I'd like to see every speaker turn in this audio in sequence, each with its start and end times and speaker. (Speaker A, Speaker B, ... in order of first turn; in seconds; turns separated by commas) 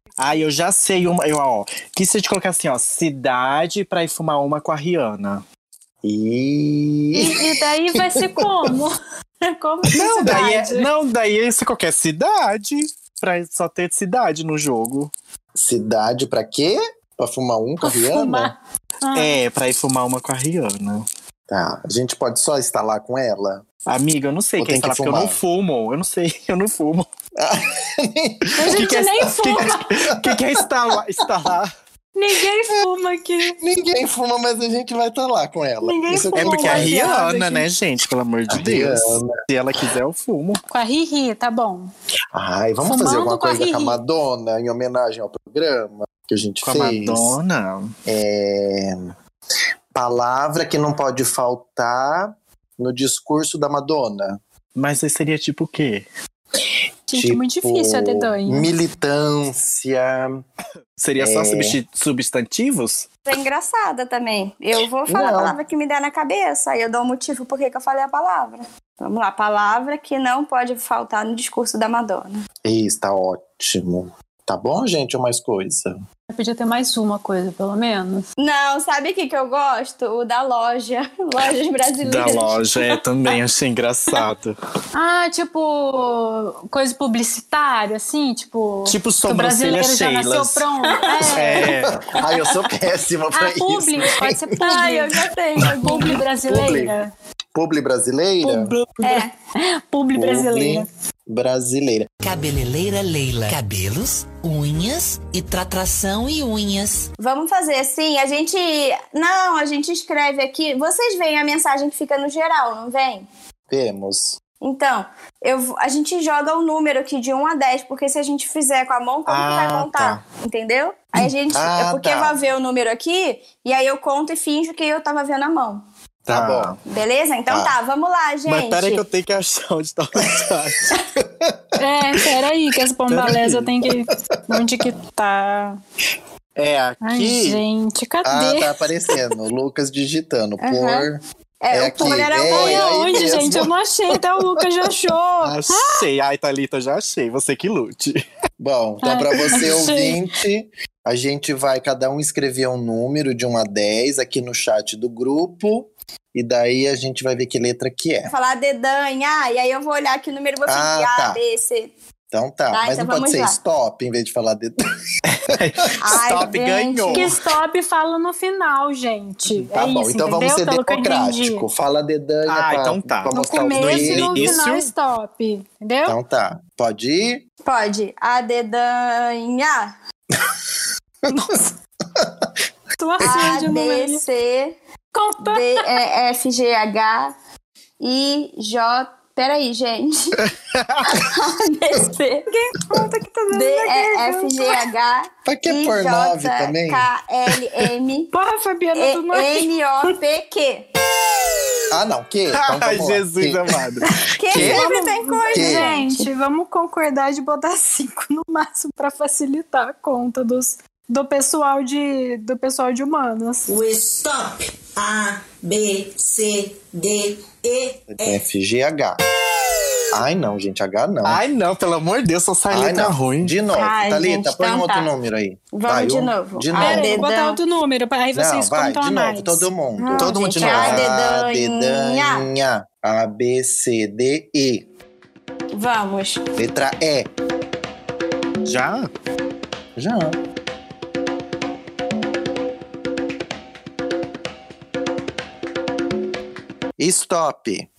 Speaker A: 0.2-5.4, Speaker B: 6.0-8.7, Speaker C: 7.1-10.9, Speaker A: 9.9-15.1, Speaker B: 15.6-18.5, Speaker C: 17.8-19.4, Speaker A: 19.1-21.1, Speaker B: 21.5-23.7, Speaker A: 23.9-27.1, Speaker B: 24.6-25.4, Speaker B: 27.4-29.5, Speaker C: 28.6-29.8, Speaker A: 28.6-31.7, Speaker C: 32.2-33.6, Speaker B: 33.6-37.2, Speaker C: 35.8-37.7, Speaker A: 36.4-40.6, Speaker B: 38.5-39.3, Speaker C: 40.7-41.9, Speaker B: 42.3-47.4, Speaker C: 42.9-44.0, Speaker A: 46.6-47.9, Speaker B: 48.1-49.1, Speaker B: 49.9-54.4, Speaker A: 54.8-56.1, Speaker C: 57.1-58.7, Speaker B: 57.1-60.4, Speaker A: 61.0-63.1, Speaker B: 61.2-61.8, Speaker D: 63.2-72.4, Speaker B: 65.1-65.6, Speaker B: 72.6-76.0, Speaker C: 76.3-78.2, Speaker D: 78.4-82.9, Speaker A: 82.0-84.5, Speaker C: 85.0-91.8, Speaker A: 88.9-90.7, Speaker D: 90.8-91.7, Speaker A: 91.3-91.9, Speaker B: 92.0-94.6, Speaker C: 93.3-97.1, Speaker D: 94.6-96.2, Speaker B: 96.4-97.0, Speaker B: 97.5-98.7, Speaker C: 98.4-100.9, Speaker D: 99.0-99.3, Speaker B: 100.1-102.1, Speaker E: 102.2-107.1, Speaker D: 107.2-113.3, Speaker B: 113.7-114.4, Speaker D: 114.6-125.8, Speaker A: 119.3-120.2, Speaker B: 121.5-122.4, Speaker B: 126.2-126.8, Speaker A: 126.3-126.8, Speaker D: 126.9-129.0, Speaker B: 127.5-127.7, Speaker A: 128.5-130.9, Speaker B: 131.2-131.7, Speaker C: 131.8-135.8, Speaker A: 133.1-133.8, Speaker A: 136.6-137.6, Speaker C: 137.0-138.8, Speaker B: 138.2-143.7, Speaker D: 140.6-141.1, Speaker D: 141.6-143.1, Speaker C: 142.5-146.1, Speaker A: 145.5-148.2, Speaker B: 148.6-158.3, Speaker C: 149.0-150.2, Speaker D: 158.3-161.9, Speaker B: 160.7-161.4, Speaker B: 162.3-164.8, Speaker D: 162.7-163.6, Speaker A: 165.3-167.4, Speaker D: 166.0-167.3, Speaker C: 167.1-171.7, Speaker B: 169.7-174.6, Speaker A: 172.5-174.9, Speaker C: 173.3-176.2, Speaker B: 176.1-177.4, Speaker D: 177.6-179.9, Speaker C: 181.3-181.7, Speaker B: 182.2-182.5, Speaker C: 183.0-184.2, Speaker D: 183.2-184.8, Speaker C: 185.1-185.9, Speaker D: 185.4-187.3, Speaker D: 188.0-190.4, Speaker A: 190.7-191.1, Speaker D: 191.1-192.5, Speaker C: 192.5-194.9, Speaker D: 193.5-198.3, Speaker B: 195.5-197.1, Speaker C: 198.3-199.7, Speaker D: 198.9-200.9, Speaker B: 201.9-203.7, Speaker A: 202.6-204.9, Speaker C: 204.1-213.7, Speaker D: 204.4-206.3, Speaker B: 205.5-205.9, Speaker F: 213.7-218.4, Speaker B: 218.1-219.2, Speaker B: 220.1-221.4, Speaker A: 221.2-223.5, Speaker B: 222.7-227.2, Speaker D: 223.8-225.1, Speaker D: 225.8-227.6, Speaker C: 226.8-229.7, Speaker B: 228.3-234.9, Speaker D: 230.0-232.5, Speaker A: 230.2-231.1, Speaker D: 235.7-236.4, Speaker B: 236.6-237.3, Speaker A: 238.6-239.1, Speaker B: 240.0-240.4, Speaker B: 247.0-247.9